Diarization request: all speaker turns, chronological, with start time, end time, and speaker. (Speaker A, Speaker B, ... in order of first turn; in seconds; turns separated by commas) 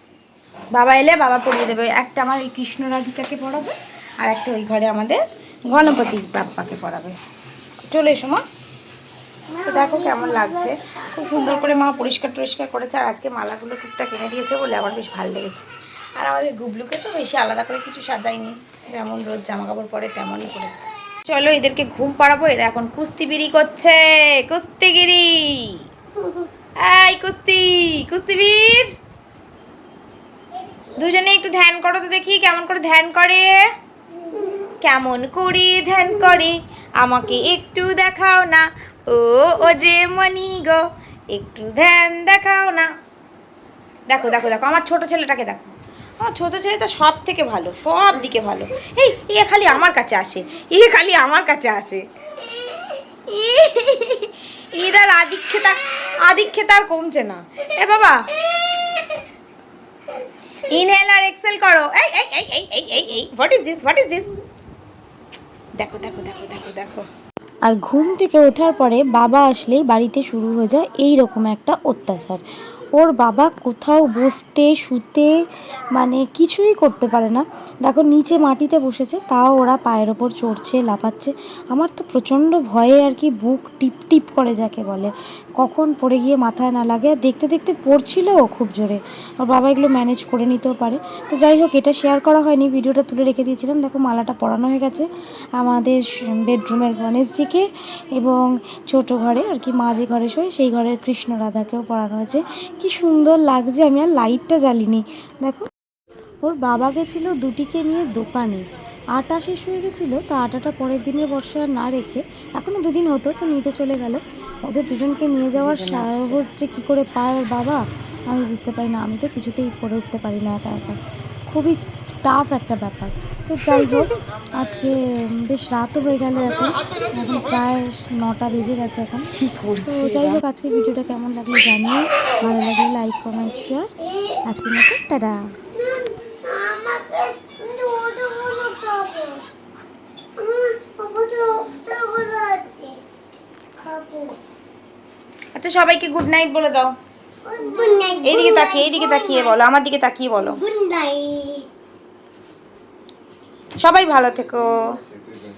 Speaker A: 0.7-7.2, Speaker A: 7.9-8.4, Speaker B: 9.5-11.8, Speaker A: 9.7-25.8, Speaker A: 26.8-28.9, Speaker A: 30.9-33.6, Speaker A: 34.8-42.9, Speaker A: 44.1-52.0, Speaker A: 53.3-58.2, Speaker A: 60.7-64.3, Speaker A: 65.8-67.0, Speaker C: 67.6-72.4, Speaker C: 72.9-75.3, Speaker C: 75.9-105.7, Speaker C: 106.4-129.3, Speaker A: 115.7-116.3, Speaker A: 129.3-130.4, Speaker C: 129.8-133.9, Speaker C: 134.4-135.4, Speaker B: 136.0-139.4, Speaker B: 140.4-143.0, Speaker B: 143.8-144.4, Speaker A: 145.6-146.9, Speaker B: 147.4-149.6, Speaker A: 148.2-150.6, Speaker B: 150.4-151.7, Speaker A: 153.8-154.8